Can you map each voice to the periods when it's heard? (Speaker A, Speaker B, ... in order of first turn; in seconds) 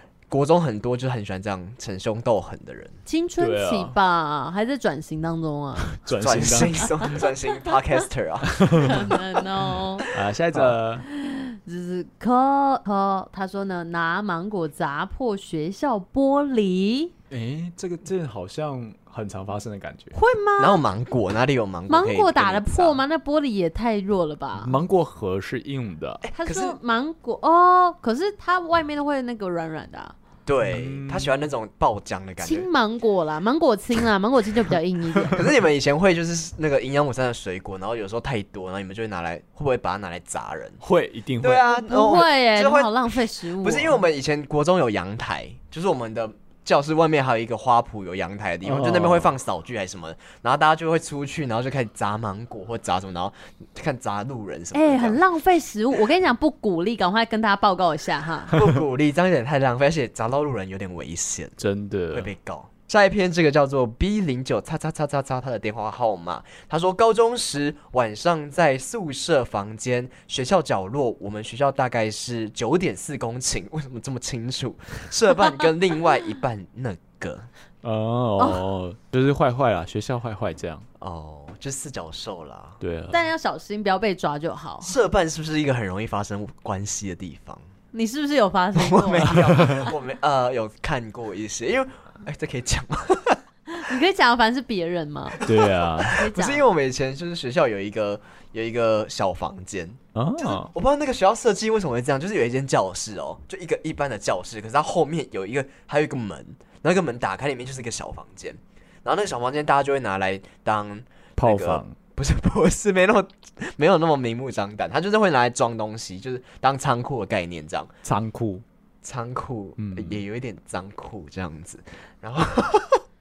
Speaker A: 0.3-3.0, 6.2-9.2, 10.0-10.7, 20.6-23.0, 26.2-26.8, 30.4-32.7, 35.3-40.8, 41.4-55.2, 58.5-61.5, 62.1-77.5, 81.0-82.8, 84.8-87.6, 88.7-93.4, 95.4-117.9, 119.0-123.0
Speaker B: 3.0-6.0, 6.8-7.1, 8.8-10.1, 11.0-17.1, 20.1-20.8, 21.9-24.8, 26.3-30.1, 32.4-35.4, 41.7-44.0, 54.7-58.5, 83.1-84.9, 87.9-89.8, 93.7-95.4, 96.0-96.7
Speaker C: 3.4-3.9, 5.9-7.1, 8.5-9.1, 10.0-11.0, 17.3-20.1, 24.6-26.2, 30.6-31.4, 40.8-41.6, 48.6-49.3, 61.6-62.3, 77.8-80.8, 82.8-83.2, 95.4-96.2, 100.1-100.7, 111.4-111.9, 118.0-118.6, 119.8-120.2